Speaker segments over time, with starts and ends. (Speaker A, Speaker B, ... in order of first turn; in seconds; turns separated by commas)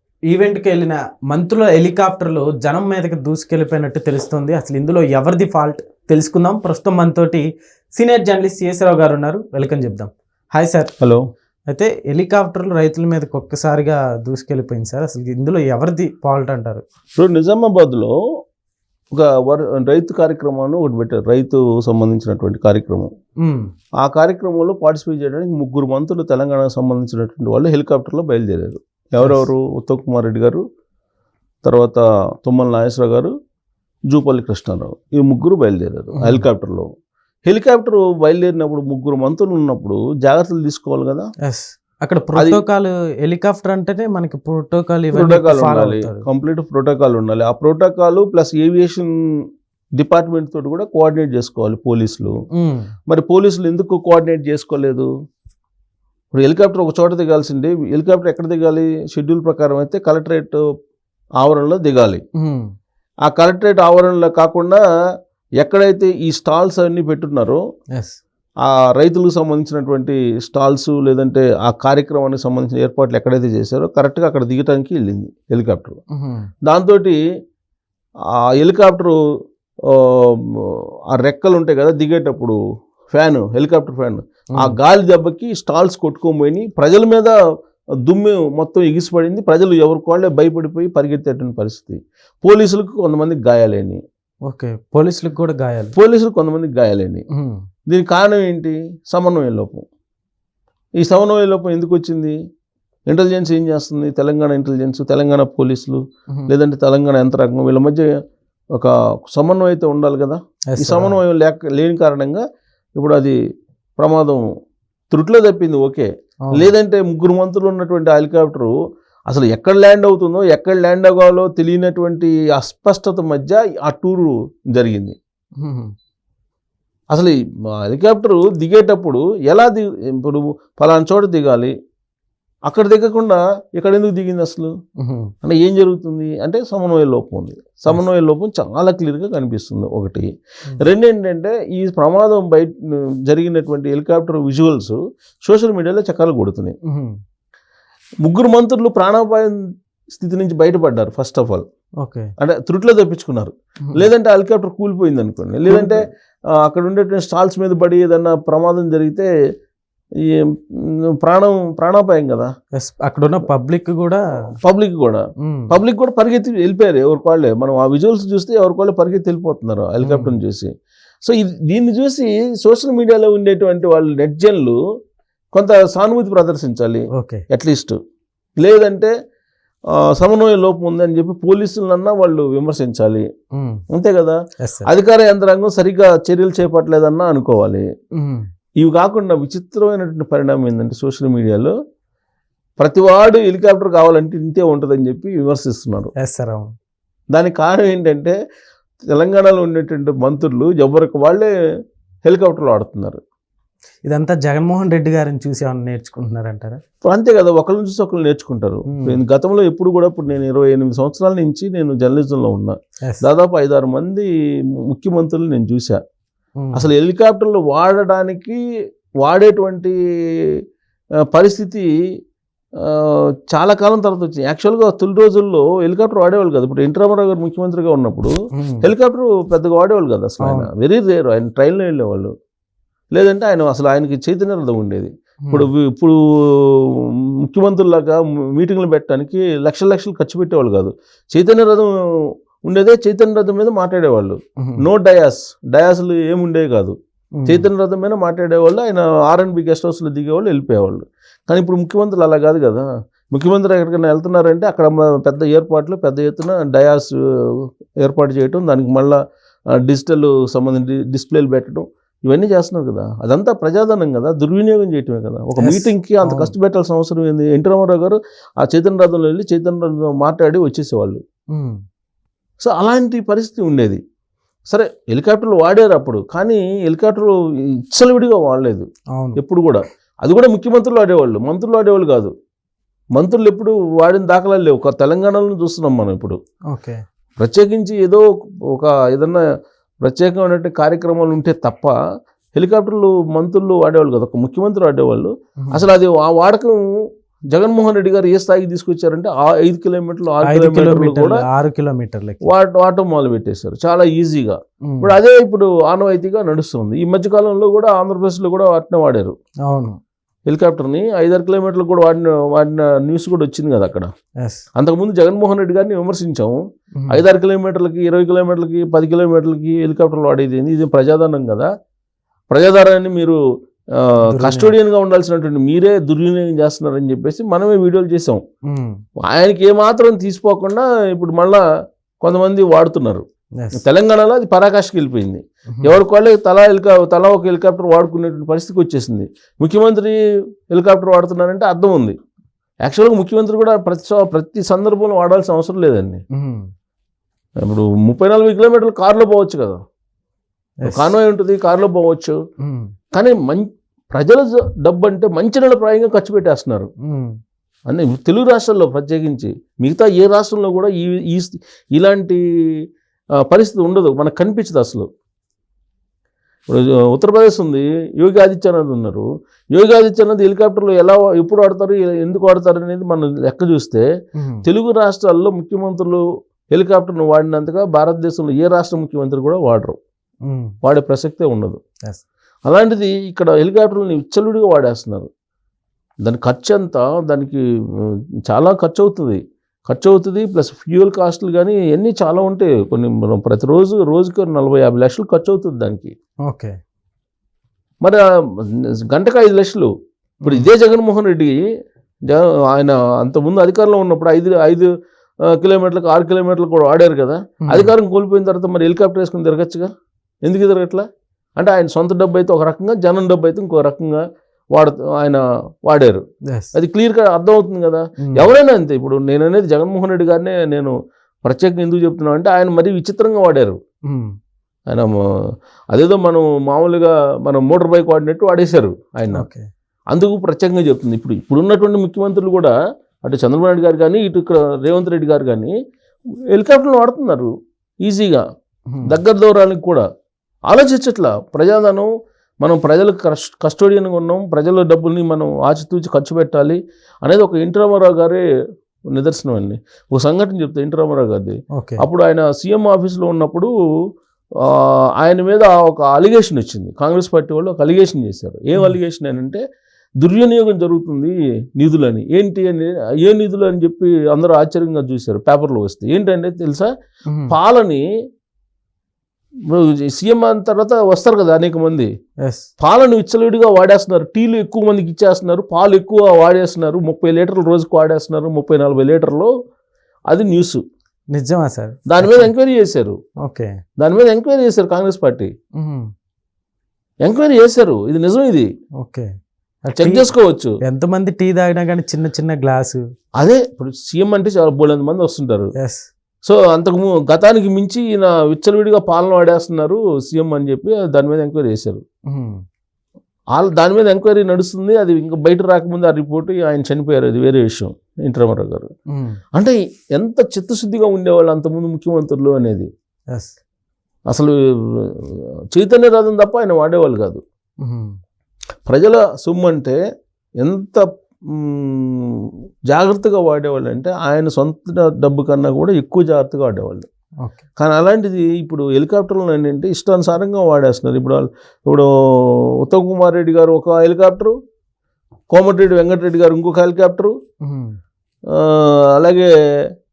Speaker A: 0.3-10.9, Speaker A: 11.7-16.8, Speaker B: 17.1-18.1, Speaker B: 19.1-23.1, Speaker A: 23.4-23.7, Speaker B: 24.0-30.6, Speaker B: 31.6-33.3, Speaker B: 34.1-36.9, Speaker A: 36.1-36.4, Speaker B: 37.5-41.3, Speaker A: 41.4-46.2, Speaker B: 42.4-42.6, Speaker B: 45.1-49.1, Speaker B: 50.0-52.3, Speaker A: 52.5-52.9, Speaker B: 53.1-55.1, Speaker B: 56.3-60.6, Speaker B: 61.4-62.2, Speaker A: 62.4-62.7, Speaker B: 63.2-64.8, Speaker B: 65.6-67.6, Speaker B: 68.6-76.0, Speaker A: 76.1-76.5, Speaker B: 76.6-77.2, Speaker B: 78.5-79.2, Speaker B: 79.8-82.6, Speaker B: 83.1-87.3, Speaker B: 88.0-94.0, Speaker A: 94.5-95.9, Speaker B: 95.9-97.2, Speaker A: 97.3-97.6, Speaker B: 97.9-99.8, Speaker B: 101.0-102.3, Speaker B: 103.1-108.1, Speaker B: 108.7-112.4, Speaker A: 110.7-111.2, Speaker B: 113.0-113.3, Speaker B: 114.0-114.4, Speaker B: 115.1-118.7, Speaker B: 119.3-125.2, Speaker A: 125.6-125.9, Speaker B: 127.1-131.7, Speaker B: 132.7-134.7, Speaker A: 135.0-135.3, Speaker B: 135.4-146.8, Speaker A: 146.9-147.2, Speaker B: 148.2-149.6, Speaker B: 150.1-151.6, Speaker A: 152.0-152.3, Speaker B: 152.4-159.3, Speaker A: 155.7-156.1, Speaker B: 160.2-162.5, Speaker A: 162.8-164.2, Speaker B: 164.6-170.7, Speaker A: 165.4-165.7, Speaker A: 170.0-170.3, Speaker B: 171.2-174.8, Speaker B: 175.5-178.0, Speaker A: 177.1-177.4, Speaker B: 178.6-179.1, Speaker B: 179.9-183.2, Speaker A: 183.5-183.8, Speaker B: 183.9-187.8, Speaker A: 184.6-184.9, Speaker A: 188.2-188.4, Speaker B: 188.8-191.7, Speaker B: 192.8-196.1, Speaker A: 196.2-196.7, Speaker B: 197.3-198.3, Speaker B: 199.1-201.5, Speaker B: 202.2-203.2, Speaker A: 204.0-206.8, Speaker B: 207.0-214.3, Speaker A: 208.9-209.2, Speaker B: 214.9-216.0, Speaker A: 216.6-216.8, Speaker B: 216.7-218.6, Speaker B: 219.2-219.9, Speaker B: 221.3-221.9, Speaker B: 222.8-232.3, Speaker A: 228.5-228.9, Speaker A: 230.4-230.7, Speaker B: 233.1-259.2, Speaker A: 247.4-247.7, Speaker B: 259.7-271.2, Speaker A: 265.6-266.5, Speaker B: 272.6-274.0, Speaker B: 274.7-277.4, Speaker B: 277.9-278.9, Speaker B: 279.4-282.3, Speaker B: 283.1-286.4, Speaker A: 286.7-287.0, Speaker B: 287.4-289.4, Speaker B: 290.0-291.9, Speaker B: 292.5-297.0, Speaker B: 297.5-301.4, Speaker A: 300.4-302.5, Speaker B: 302.4-309.3, Speaker A: 304.9-305.2, Speaker A: 309.7-310.0, Speaker B: 310.5-314.1, Speaker B: 314.8-316.6, Speaker A: 317.0-317.2, Speaker B: 317.1-321.7, Speaker B: 322.5-323.4, Speaker B: 323.9-328.4, Speaker A: 324.3-324.7, Speaker A: 328.7-329.0, Speaker B: 329.2-331.6, Speaker B: 332.2-340.2, Speaker B: 340.7-342.1, Speaker B: 342.8-346.2, Speaker A: 346.3-346.7, Speaker B: 347.6-349.8, Speaker A: 350.8-351.1, Speaker B: 350.9-352.4, Speaker A: 352.6-352.9, Speaker B: 353.1-356.9, Speaker A: 357.0-357.3, Speaker B: 357.9-362.8, Speaker B: 363.4-365.1, Speaker B: 366.7-374.0, Speaker A: 374.4-374.6, Speaker B: 374.6-380.0, Speaker A: 380.5-380.7, Speaker B: 380.8-381.8, Speaker B: 382.6-385.3, Speaker B: 386.2-396.1, Speaker A: 396.5-396.7, Speaker B: 398.0-399.9, Speaker A: 400.4-400.7, Speaker B: 400.4-401.6, Speaker B: 402.3-404.9, Speaker B: 405.4-409.9, Speaker A: 407.7-407.9, Speaker B: 410.4-411.0, Speaker B: 411.6-414.2, Speaker B: 414.7-416.2, Speaker B: 416.7-423.8, Speaker A: 418.2-418.5, Speaker B: 424.9-425.1, Speaker B: 425.9-429.4, Speaker A: 429.3-429.7, Speaker B: 430.1-432.7, Speaker B: 433.2-435.7, Speaker B: 436.5-438.4, Speaker A: 438.9-439.2, Speaker B: 439.1-440.0, Speaker B: 440.7-442.1, Speaker B: 442.6-448.4, Speaker B: 449.1-453.7, Speaker A: 451.7-452.0, Speaker B: 454.6-459.6, Speaker B: 460.2-466.9, Speaker A: 467.3-467.5, Speaker B: 467.5-468.0, Speaker B: 469.7-472.1, Speaker B: 472.8-479.5, Speaker B: 480.3-480.8, Speaker A: 481.3-482.5, Speaker B: 482.1-483.1, Speaker A: 483.4-483.7, Speaker B: 484.0-485.5, Speaker A: 485.8-486.1, Speaker B: 487.2-488.7, Speaker A: 489.0-489.3, Speaker A: 489.8-490.3, Speaker B: 490.0-490.7, Speaker A: 490.8-493.0, Speaker B: 493.4-495.7, Speaker A: 495.8-496.1, Speaker B: 496.4-502.0, Speaker A: 502.3-502.6, Speaker B: 503.5-508.9, Speaker A: 509.1-509.4, Speaker B: 509.5-512.9, Speaker B: 514.3-517.4, Speaker A: 517.8-518.1, Speaker B: 518.9-520.0, Speaker B: 520.6-527.0, Speaker B: 527.8-534.5, Speaker B: 535.5-537.3, Speaker A: 537.6-538.0, Speaker B: 538.5-539.5